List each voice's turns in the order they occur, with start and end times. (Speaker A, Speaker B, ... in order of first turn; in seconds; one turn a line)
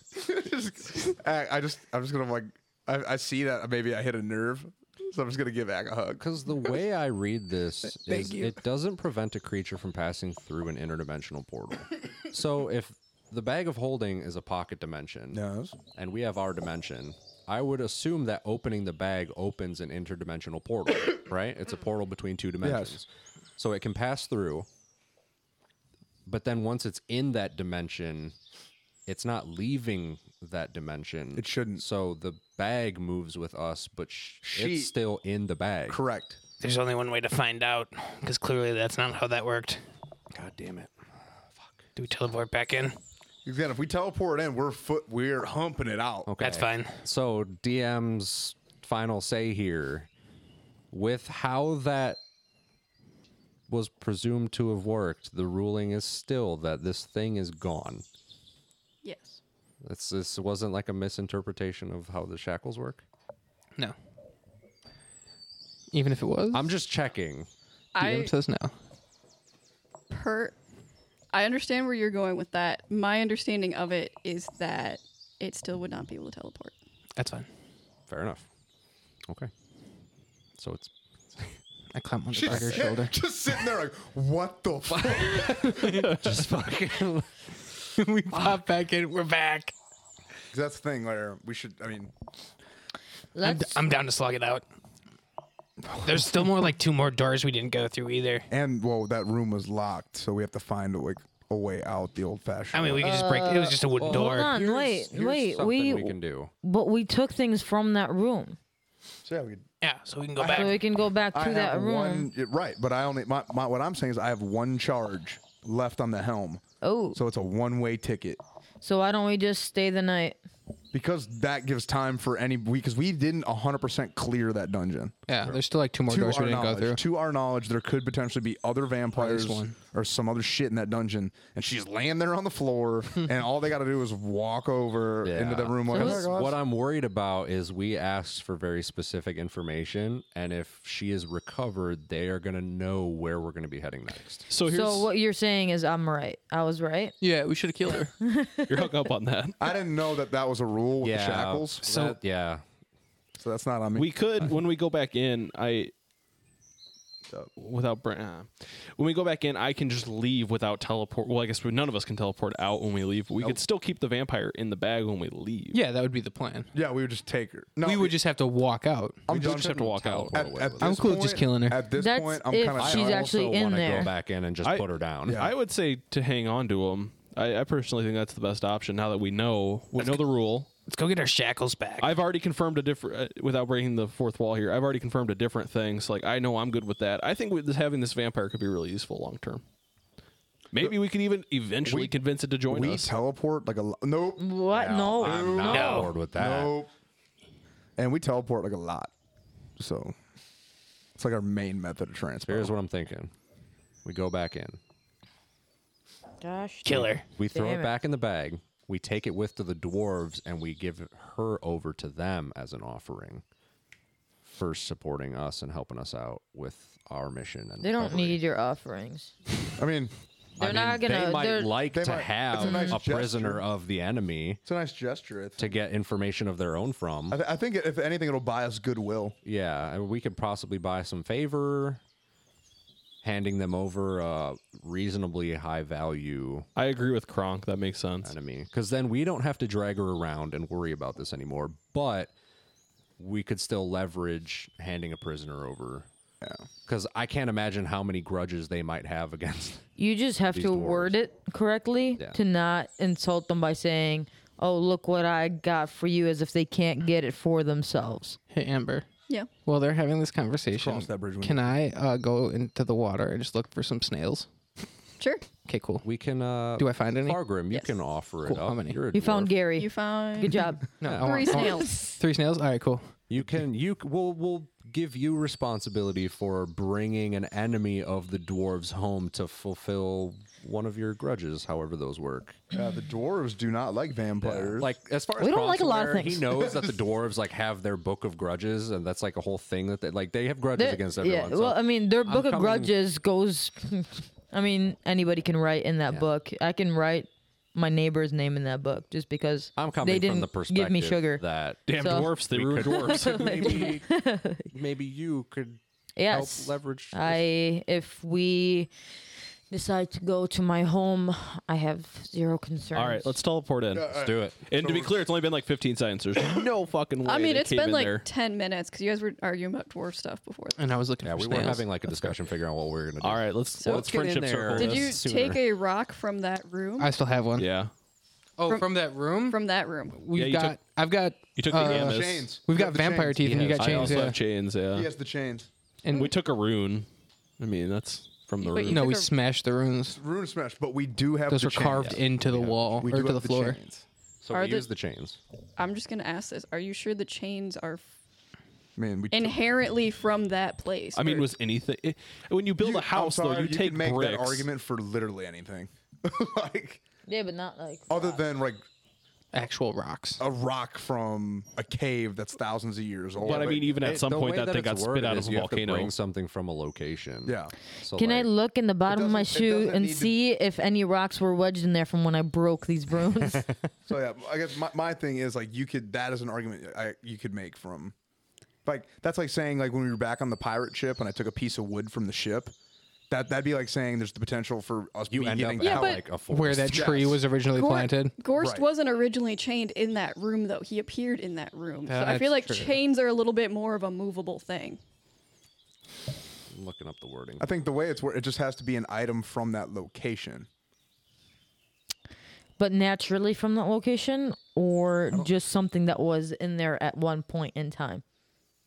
Speaker A: 0.1-6.2
Speaker B: 6.2-15.4
Speaker A: 15.3-15.8
Speaker B: 15.9-24.7
Speaker A: 22.6-23.0
Speaker B: 26.3-28.4
Speaker B: 29.1-36.0
Speaker A: 31.4-31.8
Speaker A: 34.4-34.9
Speaker A: 35.9-36.4
Speaker C: 36.6-39.8
Speaker B: 40.3-40.9
Speaker B: 41.6-41.8
Speaker C: 42.0-43.0
Speaker A: 43.5-46.3
Speaker B: 46.3-50.1
Speaker C: 46.4-47.0
Speaker B: 50.9-52.2
Speaker B: 53.7-58.0
Speaker D: 59.0-59.4
Speaker B: 59.8-63.0
Speaker C: 65.9-66.7
Speaker B: 66.5-67.5
Speaker D: 67.9-68.3
Speaker C: 68.0-68.7
Speaker D: 70.1-70.6
Speaker D: 71.3-76.8
Speaker C: 77.2-77.5
Speaker B: 78.1-78.5
Speaker B: 80.6-81.6
Speaker C: 81.9-83.2
Speaker A: 82.3-86.2
Speaker B: 82.5-82.9
Speaker B: 85.0-87.5
Speaker C: 85.7-86.2
Speaker C: 88.0-89.7
Speaker A: 90.5-92.1
Speaker E: 93.3-93.8
Speaker C: 93.4-94.7
Speaker C: 95.9-98.5
Speaker A: 98.5-103.2
Speaker C: 102.7-104.5
Speaker E: 103.0-108.6
Speaker B: 104.0-106.5
Speaker A: 109.2-109.7
Speaker C: 109.8-110.8
Speaker A: 110.4-110.8
Speaker E: 110.5-112.3
Speaker A: 111.3-116.6
Speaker E: 116.8-117.2
Speaker A: 117.1-118.4
Speaker E: 118.8-120.4
Speaker A: 120.9-125.2
Speaker C: 125.3-127.0
Speaker A: 126.1-136.6
Speaker C: 129.2-129.8
Speaker B: 135.2-144.5
Speaker E: 135.9-136.3
Speaker F: 144.5-145.1
Speaker E: 144.6-147.2
Speaker C: 147.2-148.2
Speaker E: 148.2-148.9
Speaker F: 148.7-149.6
Speaker A: 149.6-152.2
Speaker B: 151.0-152.6
Speaker C: 151.8-152.2
Speaker A: 153.4-154.1
Speaker F: 153.9-155.9
Speaker F: 157.6-165.8
Speaker C: 165.7-166.7
Speaker A: 166.7-168.2
Speaker C: 167.8-169.3
Speaker A: 169.3-173.3
Speaker B: 169.3-171.1
Speaker F: 169.4-170.5
Speaker C: 170.8-171.8
Speaker E: 171.9-174.1
Speaker B: 172.8-175.5
Speaker F: 174.6-180.7
Speaker A: 175.3-175.5
Speaker C: 180.9-182.2
Speaker F: 182.0-189.6
Speaker F: 190.7-193.1
Speaker A: 191.8-192.2
Speaker A: 192.7-194.5
Speaker E: 194.4-196.1
Speaker B: 194.7-196.7
Speaker A: 195.2-196.9
Speaker C: 195.7-196.1
Speaker A: 198.0-199.1
Speaker A: 199.8-200.2
Speaker A: 201.2-202.7
Speaker B: 202.4-203.3
Speaker B: 204.0-204.8
Speaker E: 206.4-207.9
Speaker C: 206.9-207.3
Speaker B: 207.4-213.4
Speaker B: 214.5-218.4
Speaker E: 217.8-219.3
Speaker A: 219.8-220.1
Speaker B: 220.6-224.6
Speaker E: 220.6-221.8
Speaker A: 221.9-223.6
Speaker E: 222.6-223.0
Speaker A: 224.7-225.8
Speaker B: 225.6-227.4
Speaker A: 227.3-229.4
Speaker B: 229.4-232.0
Speaker B: 233.2-236.7
Speaker F: 236.8-238.3
Speaker B: 238.2-242.3
Speaker B: 243.2-246.1
Speaker B: 246.9-249.9
Speaker E: 250.0-258.4
Speaker B: 250.5-251.2
Speaker C: 258.5-259.1
Speaker C: 259.6-264.5
Speaker A: 260.7-261.7
Speaker D: 265.2-265.5
Speaker C: 265.6-266.1
Speaker B: 266.0-269.5
Speaker C: 266.8-267.4
Speaker C: 268.4-269.0
Speaker E: 269.1-270.9
Speaker D: 269.8-270.6
Speaker C: 271.0-273.1
Speaker B: 271.0-271.6
Speaker D: 271.2-272.1
Speaker B: 273.3-282.6
Speaker A: 282.7-285.0
Speaker B: 284.4-292.9
Speaker E: 285.4-286.7
Speaker E: 290.8-304.7
Speaker B: 299.8-304.2
Speaker F: 301.9-303.9
Speaker B: 304.7-307.4
Speaker E: 306.2-308.9
Speaker E: 309.7-313.4
Speaker F: 312.9-314.1
Speaker A: 313.9-315.2
Speaker B: 314.1-314.6
Speaker F: 314.7-318.3
Speaker D: 317.2-320.8
Speaker C: 320.8-322.4
Speaker B: 321.2-325.6
Speaker F: 323.2-325.2
Speaker D: 323.8-324.1
Speaker D: 324.7-327.1
Speaker C: 327.0-327.7
Speaker F: 327.6-327.9
Speaker C: 328.6-334.4
Speaker D: 328.7-330.2
Speaker F: 330.3-330.8
Speaker F: 331.6-332.5
Speaker A: 331.7-334.1
Speaker B: 333.5-334.3
Speaker F: 333.6-335.1
Speaker A: 334.9-335.7
Speaker C: 336.0-336.3
Speaker F: 336.1-337.1
Speaker F: 337.6-339.1
Speaker D: 338.6-339.3
Speaker C: 338.9-340.2
Speaker A: 340.1-342.3
Speaker C: 341.5-343.8
Speaker B: 342.0-343.1
Speaker A: 343.0-344.1
Speaker B: 344.4-345.4
Speaker D: 344.5-344.9
Speaker D: 345.8-348.0
Speaker A: 349.0-349.6
Speaker D: 349.3-351.5
Speaker F: 351.1-354.7
Speaker A: 352.8-357.0
Speaker E: 357.3-358.4
Speaker A: 358.1-358.9
Speaker C: 359.5-360.4
Speaker A: 360.4-364.2
Speaker F: 363.4-366.1
Speaker B: 363.6-368.5
Speaker A: 367.4-367.7
Speaker E: 368.2-373.7
Speaker A: 369.1-370.4
Speaker A: 374.1-378.1
Speaker A: 378.9-382.7
Speaker A: 383.3-386.3
Speaker B: 385.3-387.4
Speaker D: 385.8-386.2
Speaker C: 386.4-388.3
Speaker A: 386.9-387.2
Speaker D: 387.7-395.0
Speaker A: 388.6-388.9
Speaker C: 392.1-393.0
Speaker B: 396.7-397.7
Speaker A: 397.6-400.7
Speaker E: 402.8-408.2